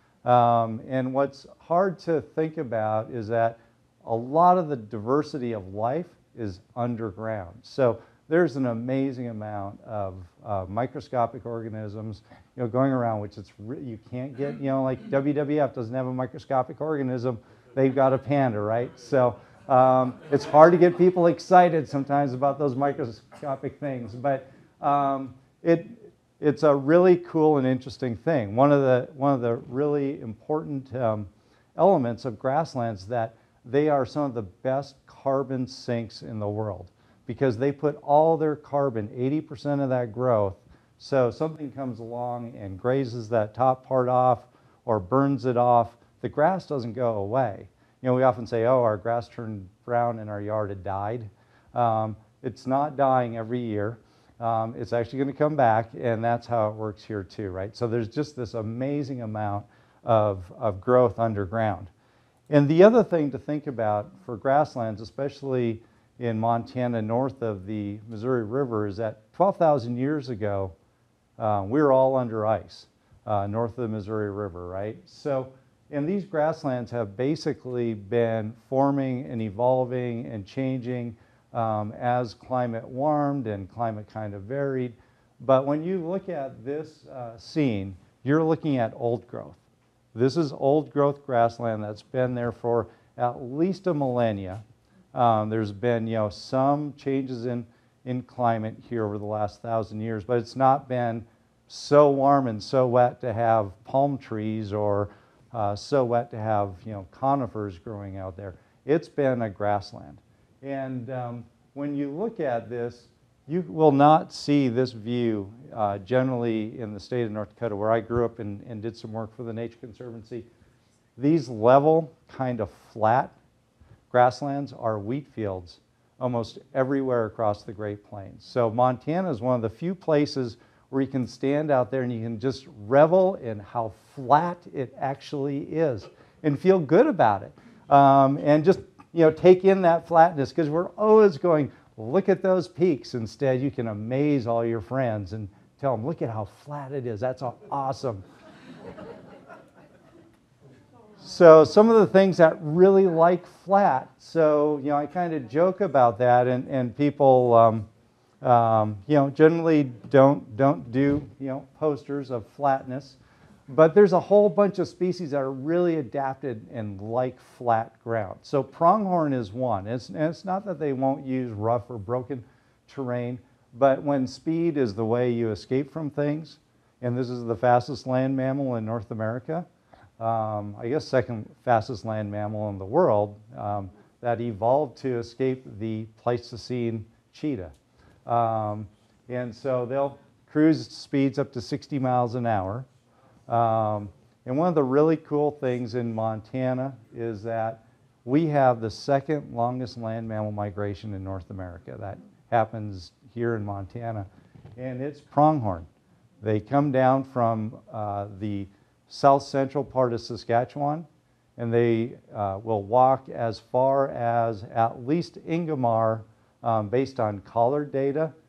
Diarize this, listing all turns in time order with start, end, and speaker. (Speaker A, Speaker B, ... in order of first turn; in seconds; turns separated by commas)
Speaker A: 0.2-61.9, Speaker A: 62.5-70.8, Speaker A: 71.4-89.6, Speaker A: 90.1-120.5, Speaker A: 121.2-123.3, Speaker A: 124.1-148.2, Speaker A: 151.2-157.9, Speaker A: 158.4-163.2, Speaker A: 163.7-179.7, Speaker A: 180.2-187.8, Speaker A: 188.3-192.9, Speaker A: 193.5-205.9, Speaker A: 206.4-218.3